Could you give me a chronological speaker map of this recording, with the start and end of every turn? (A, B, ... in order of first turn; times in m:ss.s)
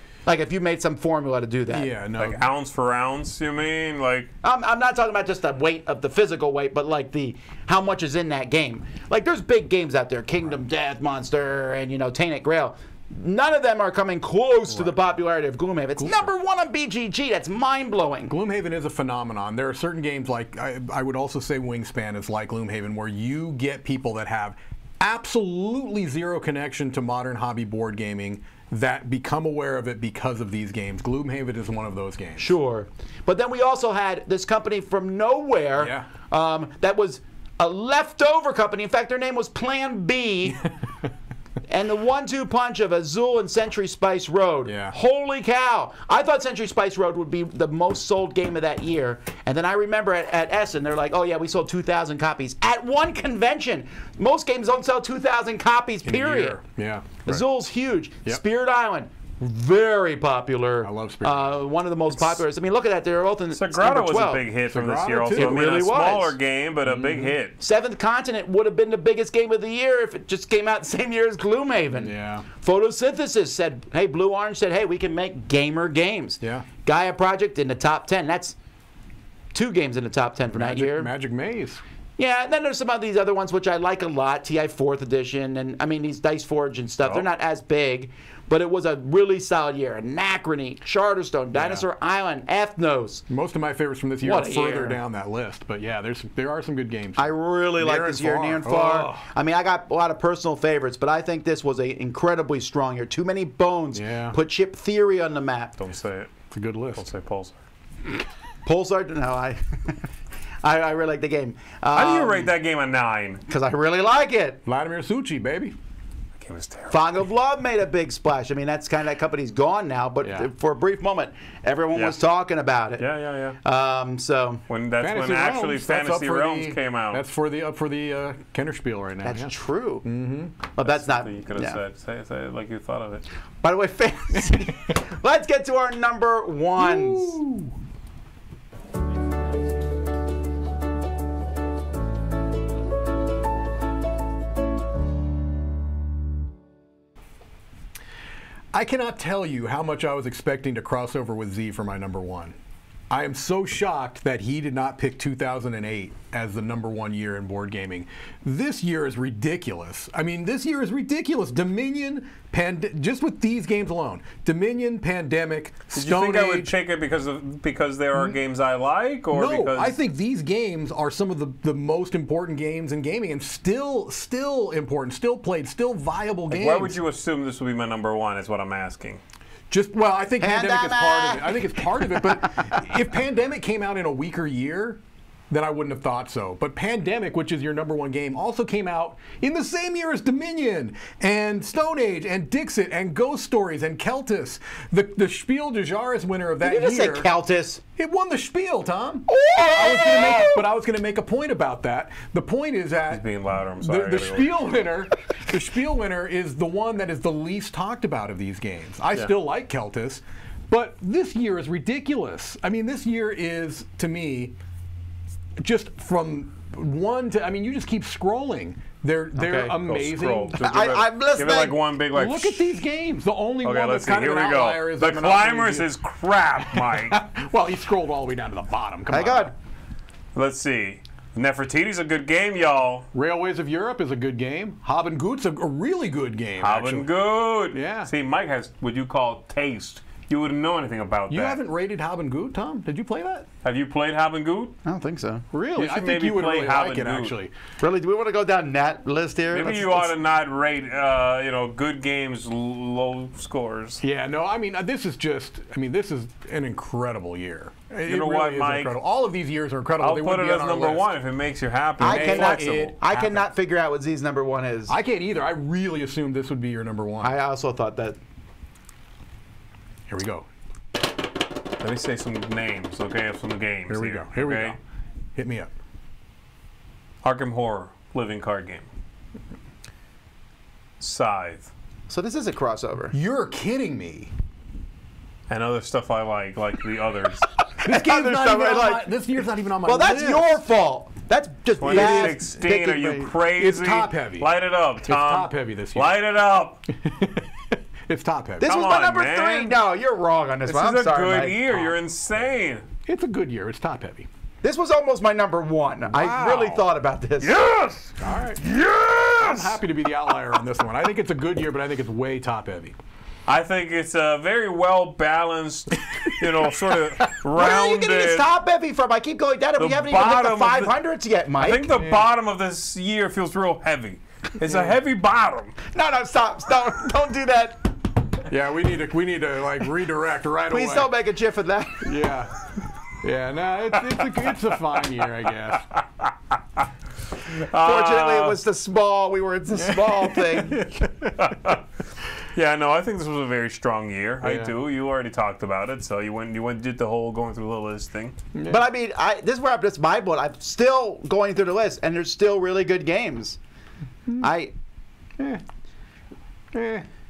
0:00.2-0:01.9 A
0:01.7-0:02.4 B
0:02.2-0:04.3 C
0:04.4-0:18.3 A
0:16.0-0:16.3 B
0:18.3-0:32.5 B
0:32.4-0:40.6 A
0:35.8-0:36.1 B
0:41.7-0:56.6 A
0:44.6-0:44.9 B
0:56.0-0:57.4 B
0:57.2-1:04.4 A
1:00.8-1:01.6 B
1:03.5-1:07.6 C
1:04.7-1:05.8 B
1:05.3-1:06.3 A
1:06.8-1:07.4 B
1:07.6-1:18.6 A
1:12.0-1:12.4 B
1:16.4-1:16.6 B
1:19.5-1:21.1 A
1:20.5-1:21.8 B
1:22.2-1:33.2 A
1:31.5-1:31.8 B
1:33.3-1:39.3 B
1:34.2-1:35.0 A
1:37.2-1:45.8 A
1:43.9-1:44.4 B
1:45.8-1:46.3 C
1:46.5-1:47.1 B
1:47.0-1:47.5 C
1:48.6-1:50.0 A
1:50.6-1:52.5 A
1:51.9-1:53.4 C
1:53.5-1:54.6 A
1:54.6-1:55.7 B
1:56.4-1:57.0 C
1:56.9-2:03.1 A
2:00.2-2:00.5 B
2:03.0-2:03.6 C
2:03.6-2:04.6 A
2:04.7-2:07.2 C
2:05.0-2:09.5 B
2:09.2-2:10.0 A
2:10.0-2:10.6 B
2:10.8-2:11.8 A
2:10.8-2:13.2 C
2:13.6-2:17.4 A
2:16.8-2:17.7 B
2:28.7-2:32.6 B
2:33.1-2:46.7 B
2:45.9-2:49.9 C
2:49.3-2:57.0 B
2:56.5-2:59.2 C
2:59.7-3:17.3 B
3:00.4-3:01.5 A
3:16.6-3:17.8 A
3:18.0-3:23.2 B
3:19.3-3:20.6 A
3:23.1-3:24.6 C
3:23.8-3:34.5 B
3:35.6-3:40.5 B
3:39.4-3:39.8 A
3:39.8-3:42.7 C
3:40.5-3:41.8 A
3:42.1-3:45.9 B
3:43.6-3:47.2 C
3:46.6-3:49.5 B
3:49.1-3:49.5 A
3:50.3-3:53.1 C
3:53.1-3:57.1 B
3:56.6-4:01.6 C
3:57.7-3:58.1 B
4:01.3-4:03.5 B
4:03.6-4:04.8 C
4:04.8-4:05.4 A
4:05.5-4:07.5 B
4:05.8-4:07.3 C
4:07.8-4:10.1 A
4:09.5-4:14.0 C
4:14.0-4:21.1 B
4:18.0-4:18.9 C
4:20.0-4:23.0 C
4:22.0-4:23.5 B
4:22.0-4:24.9 A
4:24.9-4:27.3 B
4:27.2-4:28.2 A
4:30.1-4:30.5 B
4:31.8-4:34.8 C
4:33.9-4:34.8 B
4:35.4-4:35.7 B
4:37.2-4:38.8 C
4:41.0-4:41.7 C
4:42.1-4:43.1 A
4:43.1-4:44.3 B
4:45.5-4:47.4 C
4:47.7-4:49.1 A
4:47.8-4:50.6 B
4:49.8-4:53.3 A
4:51.8-4:56.8 C
4:51.8-4:52.4 B
4:53.6-4:56.2 B
4:56.9-4:58.7 B
4:58.6-5:01.9 A
4:58.6-4:59.7 C
5:00.6-5:02.8 C
5:03.0-5:04.3 B
5:04.6-5:07.6 A
5:06.1-5:06.8 B
5:07.4-5:09.7 C
5:08.2-5:08.7 B
5:08.7-5:09.3 A
5:09.3-5:13.0 B
5:13.4-5:18.5 C
5:16.1-5:16.4 B
5:17.5-5:21.9 A
5:19.8-5:20.9 C
5:21.6-5:25.8 C
5:21.9-5:22.2 B
5:24.6-5:24.9 B
5:25.9-5:27.9 A
5:28.5-5:31.1 B
5:30.7-5:32.2 A
5:32.0-5:35.8 B
5:34.0-5:34.6 C
5:37.4-5:38.6 C
5:37.5-5:41.0 A
5:39.7-5:41.5 B
5:41.4-5:41.8 C
5:42.5-5:48.4 C
5:44.4-5:44.7 B
5:48.5-5:48.8 B
5:48.7-5:53.6 A
5:54.4-5:54.7 A
5:56.7-5:57.0 B